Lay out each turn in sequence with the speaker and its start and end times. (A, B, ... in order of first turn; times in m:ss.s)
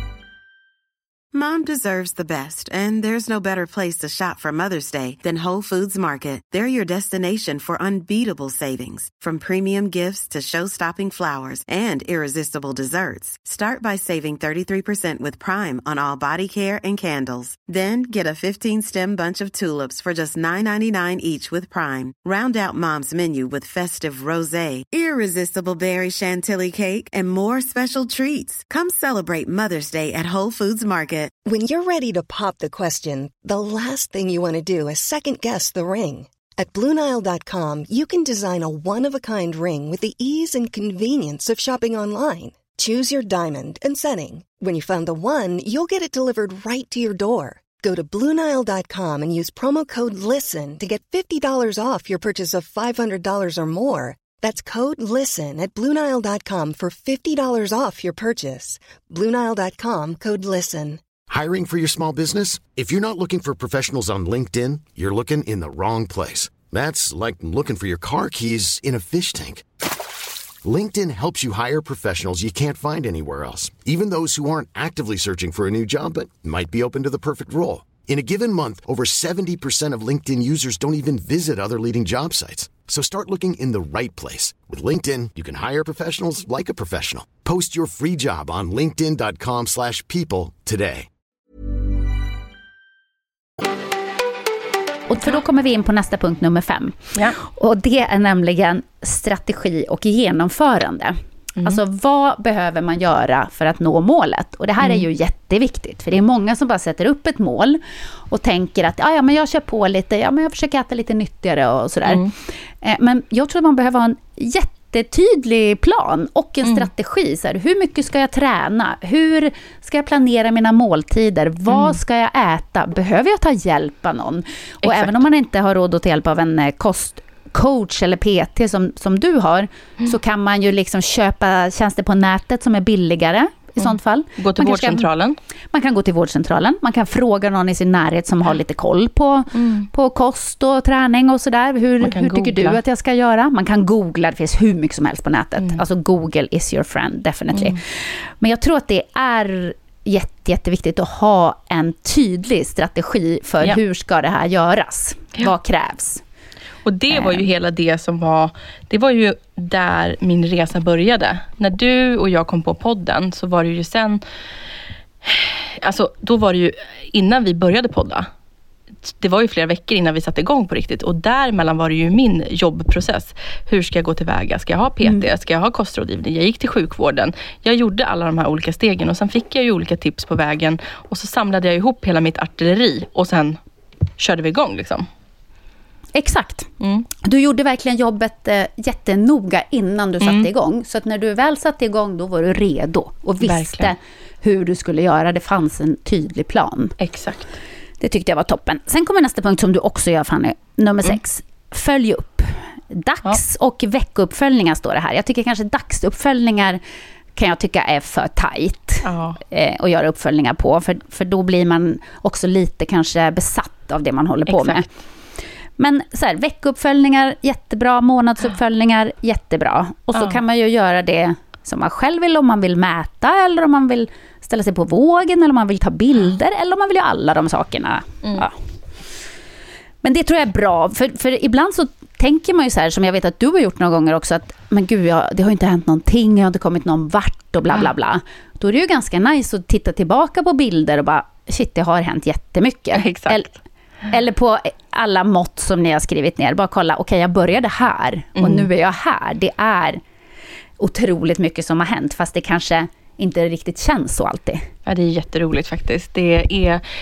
0:01.3-0:31.3 A
0:31.4-1:01.0 B
1:01.3-1:09.6 C
1:10.6-1:31.1 C
1:35.1-2:15.1 D
1:44.8-1:45.0 E
1:52.0-1:52.3 E
2:01.7-2:02.0 E
2:04.8-2:05.2 E
2:13.8-2:15.4 E
2:15.7-2:27.8 D
2:19.5-2:19.9 E
2:22.0-2:22.8 E
2:27.5-2:27.8 E
2:28.4-2:36.2 D
2:36.8-2:44.2 E
2:37.1-2:37.4 D
2:45.2-2:48.3 E
2:49.0-3:03.6 E
3:04.2-3:05.0 E
3:06.1-3:06.7 D
3:06.8-3:07.0 E
3:07.2-3:17.0 D
3:10.2-3:10.5 E
3:13.4-3:13.9 E
3:17.0-3:17.5 E
3:18.0-3:26.8 D
3:27.4-3:34.9 D
3:29.0-3:29.4 E
3:34.5-3:34.8 E
3:35.8-3:48.5 D
3:40.1-3:40.4 E
3:50.0-4:03.5 D
4:02.9-4:03.5 E
4:04.1-4:10.0 D
4:08.4-4:08.7 E
4:10.8-4:14.6 D
4:14.8-4:16.8 E